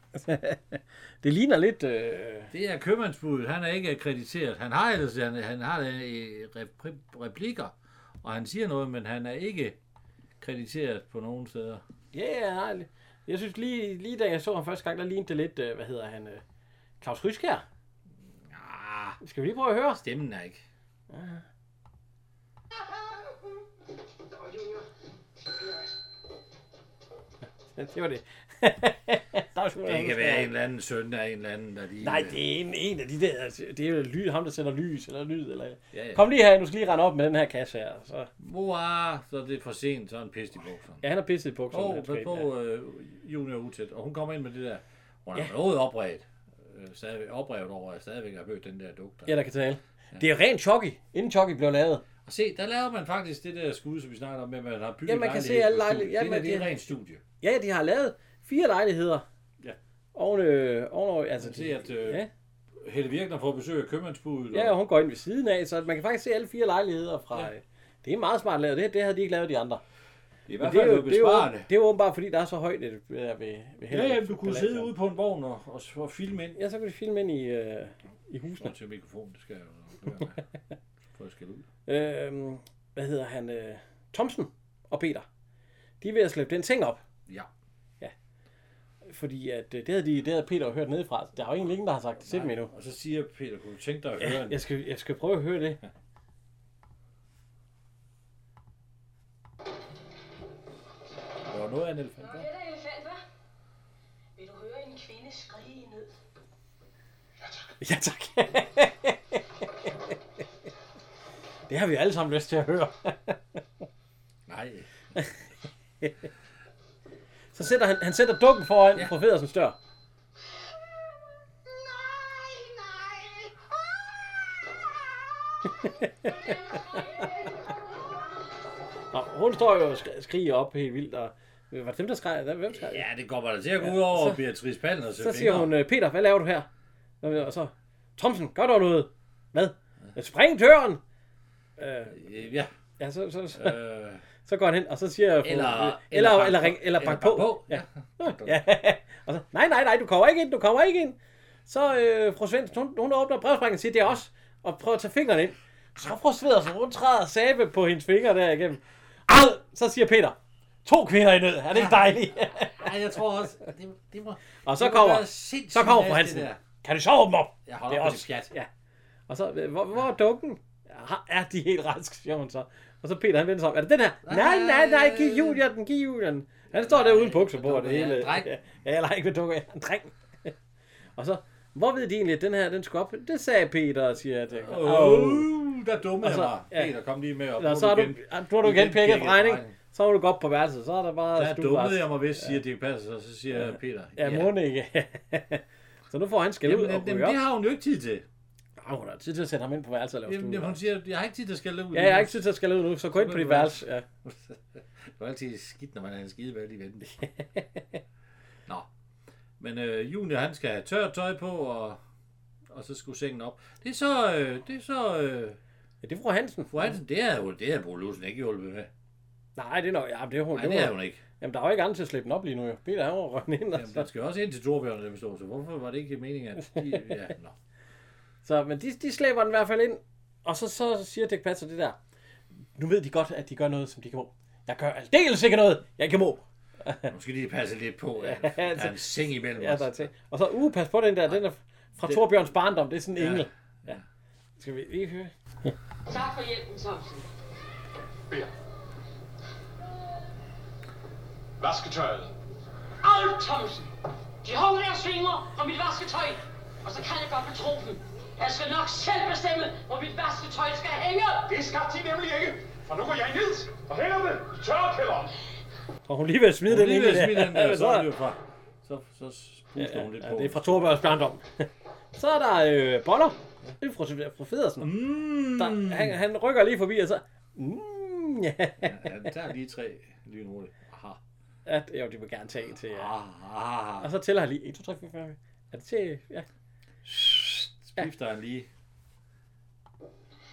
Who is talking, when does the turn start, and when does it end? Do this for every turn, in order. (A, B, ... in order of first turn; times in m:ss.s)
0:00.1-0:02.5 A
0:02.5-0:09.8 B
0:10.4-0:11.8 B
0:12.1-0:16.4 A
0:17.0-0:17.6 A
0:18.5-0:19.2 B
0:19.2-0:20.0 A
0:19.9-0:20.6 B
0:21.1-0:21.4 A
0:27.7-0:30.5 A
0:29.8-0:32.4 B
0:32.0-0:38.3 A
0:35.9-0:36.2 B
0:38.4-0:41.0 B
0:41.0-0:42.5 A
0:41.7-0:49.4 B
0:49.3-0:52.0 A
0:52.2-0:57.2 B
0:55.0-0:56.7 A
0:57.4-0:59.2 A
1:00.1-1:02.3 A
1:01.4-1:02.2 B
1:02.8-1:04.8 B
1:04.5-1:09.8 A
1:10.5-1:11.7 B
1:10.6-1:14.9 A
1:13.9-1:16.6 B
1:16.6-1:18.7 A
1:18.6-1:20.4 B
1:21.1-1:21.7 B
1:21.9-1:25.2 A
1:26.0-1:27.0 A
1:29.0-1:32.7 A
1:32.2-1:34.6 B
1:34.2-1:35.8 A
1:41.4-1:42.5 B
1:42.2-1:43.2 C
1:44.4-1:46.1 C
1:47.4-1:47.7 D
1:47.8-1:49.4 A
1:51.7-1:53.6 A
1:54.5-1:54.9 B
1:57.5-1:59.8 A
2:05.8-2:06.3 A
2:09.1-2:13.0 A
2:12.7-2:15.7 B
2:13.8-2:14.4 A
2:15.2-2:16.7 A
2:17.2-2:21.0 A
2:21.8-2:22.2 A
2:22.1-2:22.7 B
2:23.0-2:23.8 A
2:23.5-2:24.2 B
2:24.4-2:42.9 A
2:25.4-2:28.6 B
2:41.7-2:46.6 B
2:44.6-2:48.7 A
2:47.6-2:48.5 B
2:49.3-3:00.5 A
2:54.2-2:55.6 B
2:56.7-2:58.5 B
3:01.2-3:05.5 A
3:04.5-3:09.8 B
3:06.2-3:06.9 A
3:07.6-3:12.6 A
3:11.3-3:14.5 B
3:13.5-3:17.4 A
3:16.6-3:18.2 B
3:18.8-3:20.8 A
3:20.2-3:22.4 B
3:21.9-3:24.0 A
3:23.1-3:27.2 B
3:27.2-3:28.0 A
3:29.6-3:32.0 B
3:32.7-3:35.6 B
3:36.0-3:37.0 A
3:36.7-3:38.9 B
3:39.6-3:44.1 A
3:40.5-3:41.2 B
3:43.7-3:47.6 B
3:48.4-3:52.0 A
3:52.8-3:57.1 A
3:57.1-4:00.1 B
3:58.2-3:59.0 A
3:59.5-4:04.0 A
4:02.0-4:02.5 B
4:03.1-4:04.0 B
4:04.6-4:05.7 A
4:06.1-4:07.3 E
4:11.6-4:12.3 D
4:13.0-4:13.9 E
4:14.4-4:21.5 E
4:21.5-4:25.3 D
4:26.0-4:28.1 A
4:26.6-4:31.0 B
4:29.8-4:34.9 A
4:34.8-4:36.2 B
4:35.5-4:39.1 A
4:38.8-4:41.2 B
4:41.6-4:43.1 A
4:42.9-4:44.1 B
4:44.0-4:46.4 A
4:47.0-4:48.7 B